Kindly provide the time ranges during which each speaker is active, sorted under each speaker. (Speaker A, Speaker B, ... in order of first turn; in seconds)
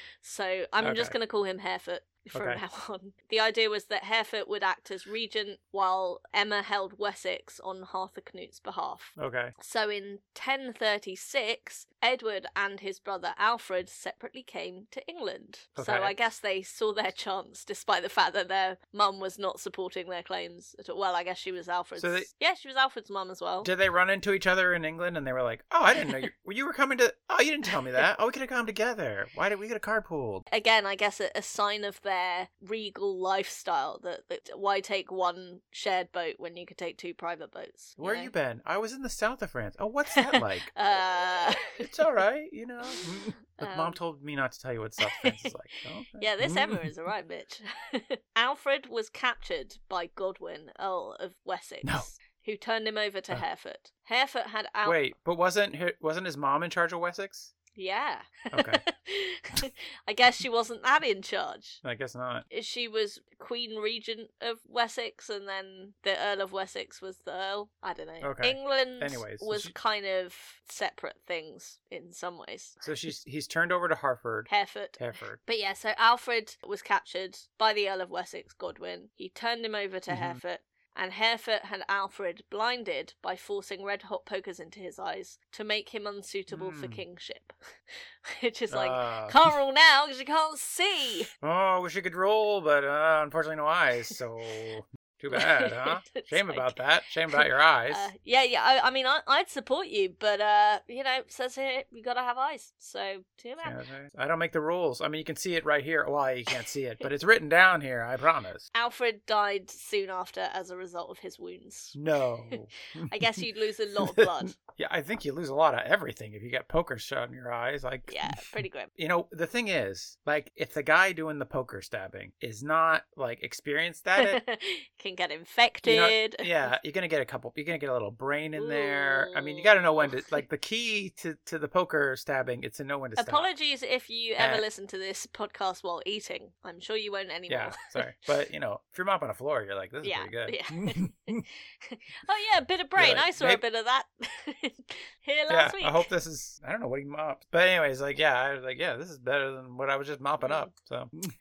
Speaker A: 0.2-23.7, 30.5-38.3, 40.1-42.1, 42.9-44.0, 45.0-45.5, 46.1-55.0, 57.7-61.8, 62.5-72.8, 74.5-87.5, 88.3-91.3, 95.3-96.8, 97.3-103.8, 108.7-112.0, 112.5-114.6, 118.1-118.9, 124.2-126.7, 128.6-130.4, 133.2-138.0, 140.0-146.1, 150.4-150.7
Speaker B: 0.8-1.1, 2.3-2.6, 9.2-9.5, 15.8-16.1, 22.0-22.3, 23.6-30.4, 38.0-40.7, 41.8-46.9, 51.8-52.1, 54.8-57.5, 58.5-58.8, 61.8-62.5, 68.2-69.7, 72.8-75.4, 80.1-80.4, 86.5-87.0, 88.7-89.5, 91.4-98.1, 103.6-108.6, 111.9-113.4, 114.1-118.2, 119.0-124.4, 125.8-133.5, 134.4-134.7, 137.5-141.4, 142.9-143.6, 145.5-151.3